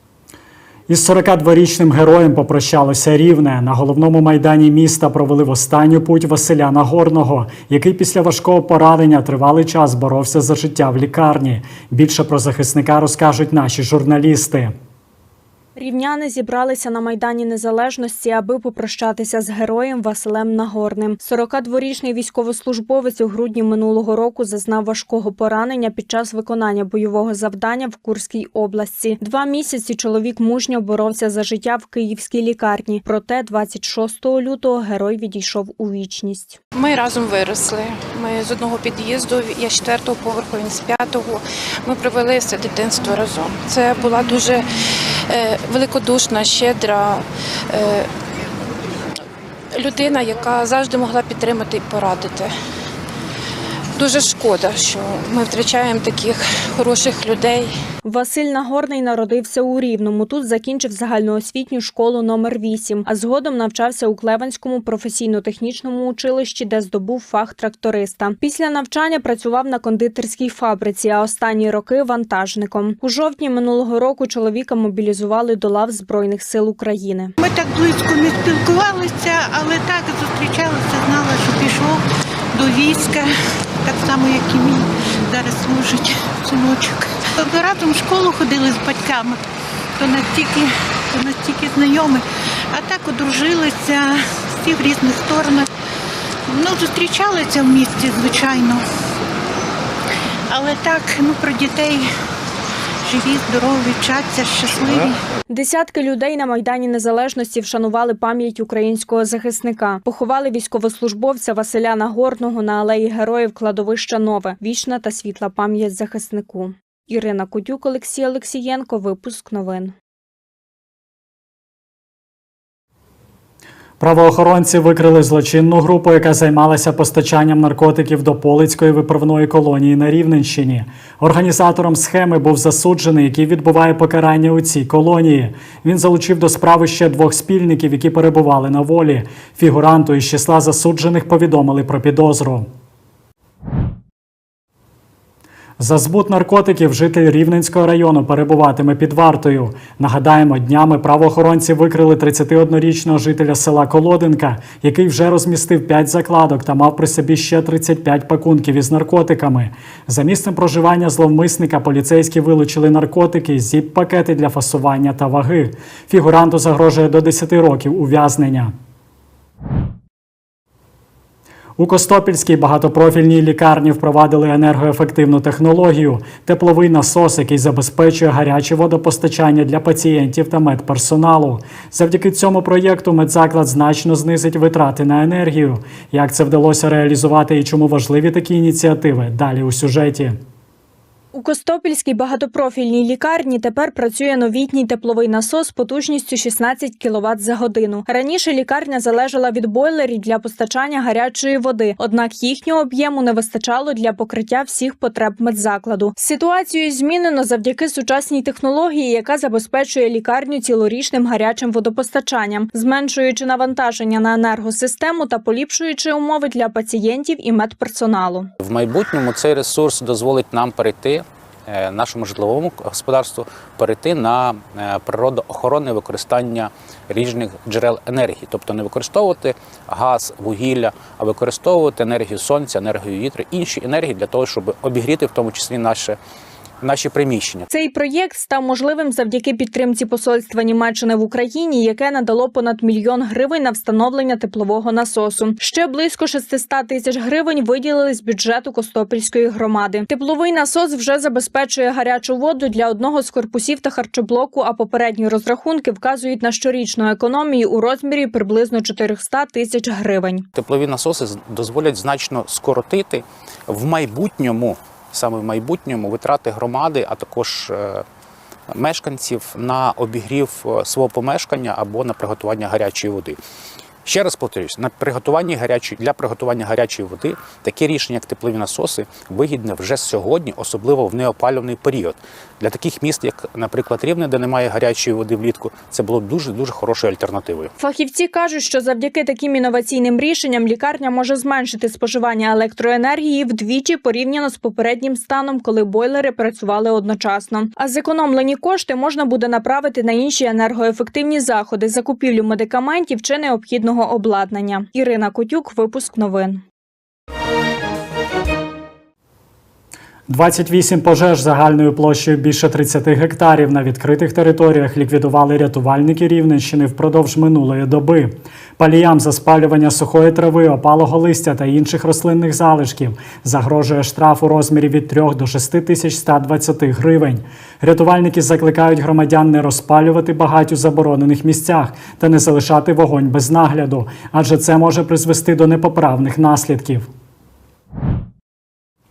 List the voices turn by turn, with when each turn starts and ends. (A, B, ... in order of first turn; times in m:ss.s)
0:00.9-0:14.7 A
0:15.8-0:36.6 B
0:36.7-0:44.6 C
0:45.3-0:48.1 C
0:49.7-0:52.5 C
0:54.0-0:57.7 C
0:58.0-1:17.3 B
1:17.4-1:22.0 D
1:22.5-1:23.3 D
1:23.8-1:29.4 D
1:30.0-1:35.7 D
1:36.5-1:38.8 D
1:40.5-1:42.0 D
1:43.1-1:45.2 D
1:45.5-1:59.9 B
2:04.0-2:22.7 A
2:25.8-2:48.7 A
2:51.8-3:10.4 A
3:11.3-3:38.5 B
3:38.6-3:56.2 E
3:56.8-3:57.7 E
3:57.7-4:20.4 B
4:20.5-4:28.0 E
4:28.7-4:33.4 E
4:34.0-4:47.7 E
4:47.8-5:06.6 B
5:10.3-5:37.1 A